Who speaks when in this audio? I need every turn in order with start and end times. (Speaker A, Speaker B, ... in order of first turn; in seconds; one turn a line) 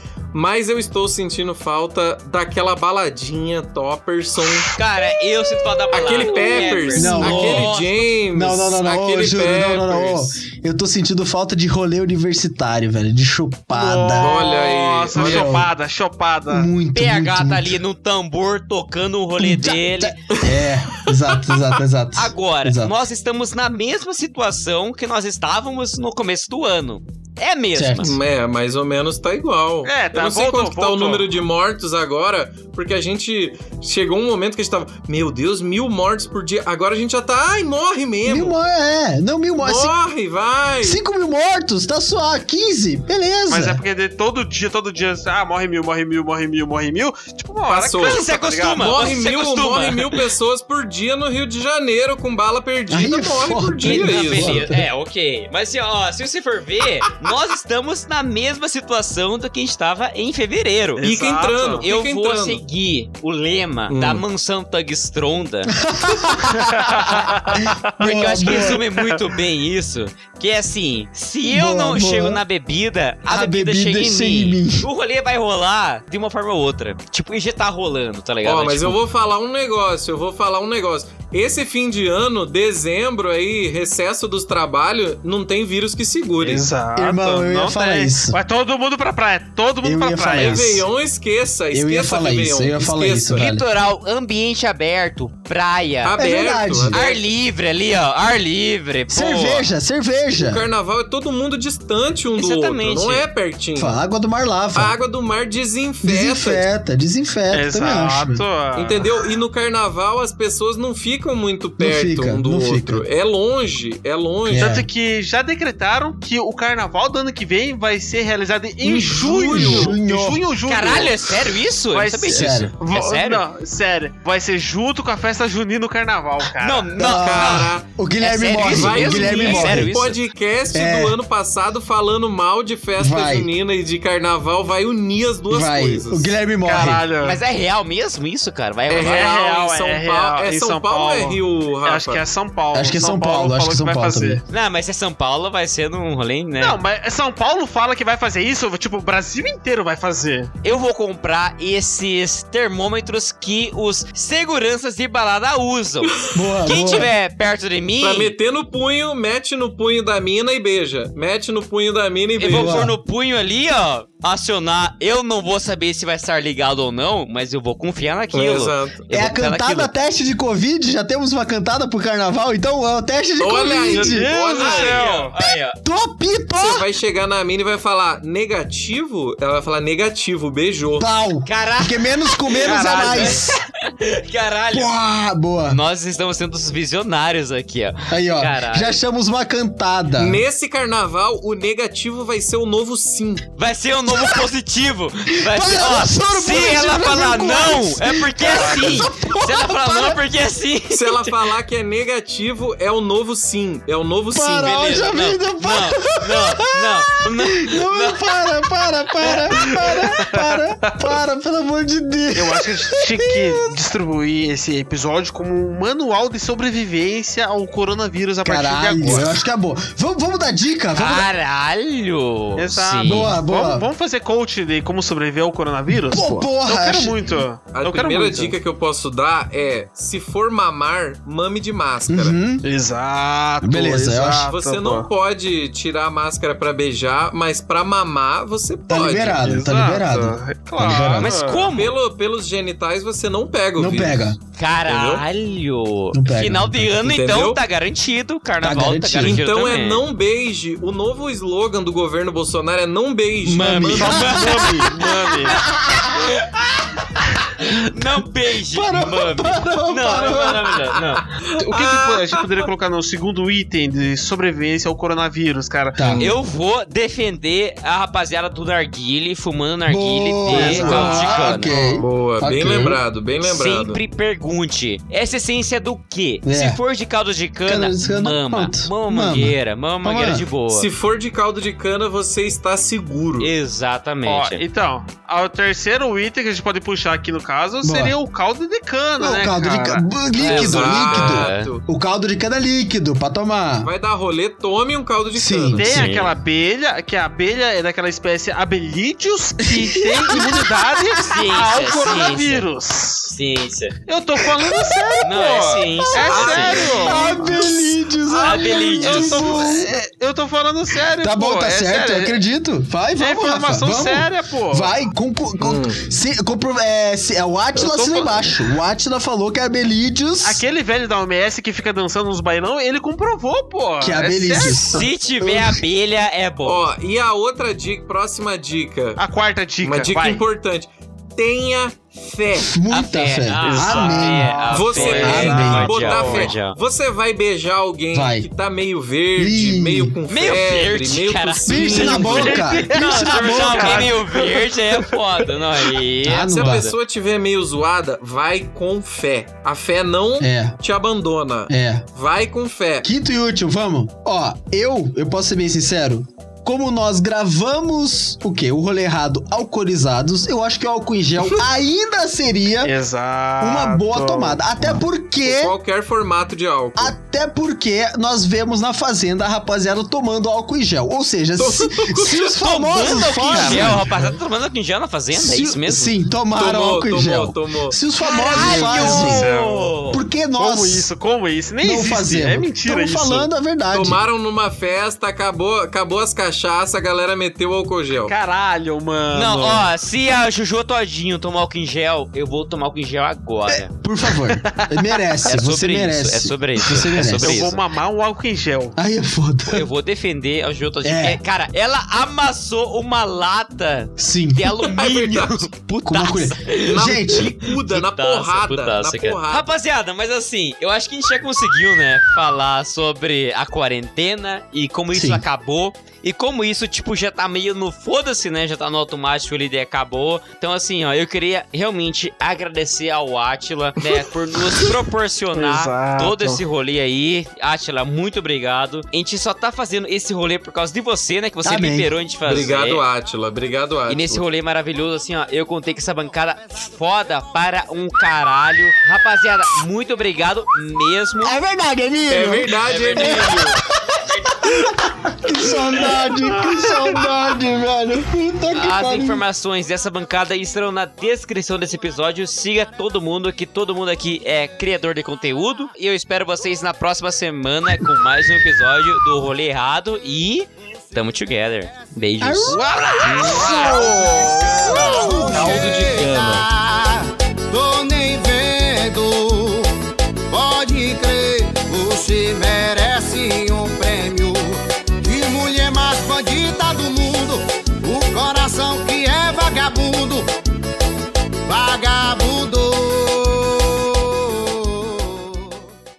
Speaker A: 0.3-4.7
Speaker B: 4.7-7.9
Speaker A: 5.9-10.3
Speaker C: 6.3-6.7
Speaker D: 6.9-7.7
Speaker D: 8.3-14.4
Speaker C: 13.7-16.7
Speaker A: 14.2-15.5
Speaker D: 15.1-15.7
Speaker D: 16.5-17.8
Speaker B: 16.9-20.2
Speaker D: 19.4-22.9
Speaker A: 20.3-21.7
Speaker B: 22.1-28.1
Speaker D: 27.7-28.1
Speaker A: 28.0-38.6
Speaker C: 29.8-31.3
Speaker D: 38.2-39.9
Speaker A: 39.6-41.0
Speaker D: 40.8-43.8
Speaker C: 43.5-49.1
Speaker A: 47.7-48.2
Speaker B: 48.0-50.1
Speaker A: 48.8-54.7
Speaker D: 52.9-54.9
Speaker B: 53.8-61.1
Speaker C: 61.0-61.9
Speaker A: 61.0-62.6
Speaker B: 61.8-65.7
Speaker A: 63.9-64.2
Speaker D: 65.7-68.8
Speaker C: 66.5-67.9
Speaker B: 68.0-79.0
Speaker C: 68.5-69.0
Speaker D: 71.4-72.4
Speaker D: 73.2-74.9
Speaker A: 78.4-86.7
Speaker C: 86.4-90.8
Speaker D: 87.0-88.4
Speaker D: 89.8-90.9
Speaker A: 90.3-93.5
Speaker D: 91.7-93.7
Speaker B: 93.3-96.2
Speaker A: 96.0-97.2
Speaker D: 96.1-97.0
Speaker B: 96.9-99.7
Speaker D: 99.1-100.7
Speaker A: 100.3-104.0
Speaker B: 102.4-103.2
Speaker D: 103.8-105.0
Speaker A: 104.7-106.6
Speaker D: 106.0-108.4
Speaker C: 107.5-109.0
Speaker A: 108.7-114.7
Speaker D: 111.8-113.0
Speaker D: 114.5-114.9
Speaker C: 114.6-126.9
Speaker D: 118.8-120.4
Speaker A: 118.9-119.9
Speaker B: 120.7-123.4
Speaker D: 122.3-122.7
Speaker B: 126.6-130.2
Speaker D: 127.0-129.9
Speaker A: 127.0-127.9
Speaker A: 128.6-136.3
Speaker D: 130.7-131.2
Speaker D: 133.0-133.5
Speaker D: 135.5-137.0
Speaker C: 136.6-137.4
Speaker B: 137.2-139.3
Speaker A: 138.9-142.2
Speaker C: 138.9-144.4
Speaker D: 142.7-144.4
Speaker B: 144.5-146.8
Speaker C: 146.6-150.5
Speaker B: 150.6-158.3
Speaker A: 156.1-156.8
Speaker D: 156.3-157.1
Speaker A: 158.0-162.9
Speaker B: 162.4-169.9
Speaker D: 162.5-163.0
Speaker A: 168.3-169.0
Speaker D: 169.1-174.3
Speaker A: 173.4-175.1
Speaker C: 173.9-175.3
Speaker B: 174.5-175.8
Speaker D: 175.8-176.8
Speaker A: 176.6-181.1
Speaker D: 181.0-183.6
Speaker B: 181.4-184.9
Speaker C: 182.6-183.4
Speaker D: 184.7-185.8
Speaker B: 185.7-189.0
Speaker D: 188.1-190.4
Speaker A: 190.2-193.5
Speaker B: 193.6-201.3
Speaker D: 194.1-194.4
Speaker D: 195.4-200.2
Speaker C: 198.4-199.0
Speaker A: 200.9-205.0
Speaker D: 204.3-213.7
Speaker B: 204.6-208.2
Speaker C: 209.2-210.9
Speaker C: 212.3-219.4
Speaker D: 218.4-221.2
Speaker B: 220.9-223.3
Speaker C: 222.6-228.5
Speaker D: 223.0-223.8
Speaker D: 225.9-227.2
Speaker A: 227.7-232.4
Speaker D: 232.1-232.6
Speaker C: 232.6-235.1
Speaker D: 233.6-234.5
Speaker A: 234.4-239.4
Speaker D: 238.9-241.4
Speaker C: 239.4-241.7
Speaker B: 241.2-241.9
Speaker A: 241.7-244.3
Speaker D: 243.8-244.4
Speaker B: 244.6-250.0
Speaker A: 244.8-245.2
Speaker D: 246.1-247.0
Speaker A: 247.0-247.6
Speaker D: 248.6-249.4
Speaker A: 249.2-254.2
Speaker D: 253.4-256.2
Speaker B: 253.5-254.7
Speaker C: 253.9-255.6
Speaker B: 256.1-261.2
Speaker D: 258.7-260.8
Speaker A: 261.3-262.7
Speaker C: 261.6-266.0
Speaker D: 265.9-266.3
Speaker A: 266.0-266.4
Speaker B: 266.2-271.7
Speaker D: 269.9-273.0
Speaker C: 270.4-272.0
Speaker A: 270.5-274.0
Speaker B: 273.4-280.9
Speaker D: 276.4-276.8
Speaker D: 277.6-280.4
Speaker A: 280.7-283.5
Speaker B: 283.4-284.6
Speaker C: 284.2-290.1
Speaker D: 287.8-288.2
Speaker D: 289.2-293.9
Speaker B: 290.4-291.7
Speaker A: 290.4-291.8
Speaker A: 293.8-295.9
Speaker D: 295.3-296.0
Speaker C: 295.8-303.3
Speaker B: 295.8-296.3
Speaker D: 299.7-300.7
Speaker B: 301.2-302.7
Speaker B: 303.3-304.0
Speaker C: 304.1-312.4
Speaker D: 304.7-305.1
Speaker B: 305.2-307.6
Speaker A: 306.3-307.7
Speaker D: 306.9-309.9
Speaker B: 308.4-309.6
Speaker D: 311.2-320.6
Speaker C: 313.2-314.9
Speaker A: 315.6-316.0
Speaker C: 317.8-318.5
Speaker C: 320.4-324.8
Speaker D: 324.0-325.8
Speaker B: 324.8-326.8
Speaker A: 326.6-329.2
Speaker C: 329.2-330.4
Speaker A: 329.8-332.7
Speaker D: 332.6-336.1
Speaker B: 332.9-336.7
Speaker C: 333.6-336.5
Speaker A: 334.7-342.7
Speaker D: 338.1-338.5
Speaker D: 339.4-340.1
Speaker B: 340.3-346.9
Speaker D: 341.6-344.2
Speaker C: 342.0-345.2
Speaker D: 346.2-346.9
Speaker A: 346.5-353.1
Speaker D: 350.4-350.8
Speaker D: 351.7-352.0
Speaker D: 353.0-362.9
Speaker C: 362.8-364.9
Speaker D: 363.6-365.8
Speaker A: 365.4-367.1
Speaker D: 367.0-374.1
Speaker A: 371.6-372.6
Speaker B: 372.5-376.1
Speaker C: 373.4-374.4
Speaker D: 375.3-379.5
Speaker A: 376.6-378.0
Speaker B: 378.2-380.2
Speaker C: 378.4-379.9
Speaker D: 380.1-381.1
Speaker C: 380.6-383.5
Speaker D: 381.8-384.2
Speaker A: 383.9-388.3
Speaker C: 388.3-389.9
Speaker B: 389.3-393.9
Speaker D: 393.7-397.7
Speaker C: 394.3-395.3
Speaker B: 395.4-397.8
Speaker C: 397.0-398.9
Speaker D: 398.9-399.9
Speaker B: 399.7-433.0
Speaker D: 401.0-401.4
Speaker D: 404.2-404.7
Speaker A: 404.8-405.7
Speaker D: 406.0-407.5
Speaker A: 406.8-409.7
Speaker D: 415.1-415.4
Speaker C: 425.5-426.6
Speaker D: 431.6-432.1
Speaker A: 432.4-434.4
Speaker B: 434.1-441.6
Speaker D: 441.4-449.4
Speaker A: 442.3-443.8
Speaker B: 442.8-443.8
Speaker B: 448.7-464.0
Speaker D: 462.4-465.7
Speaker E: 462.8-469.9
Speaker C: 462.9-464.2
Speaker B: 465.5-466.6
Speaker A: 465.6-465.8
Speaker E: 470.5-480.5
Speaker E: 481.7-485.6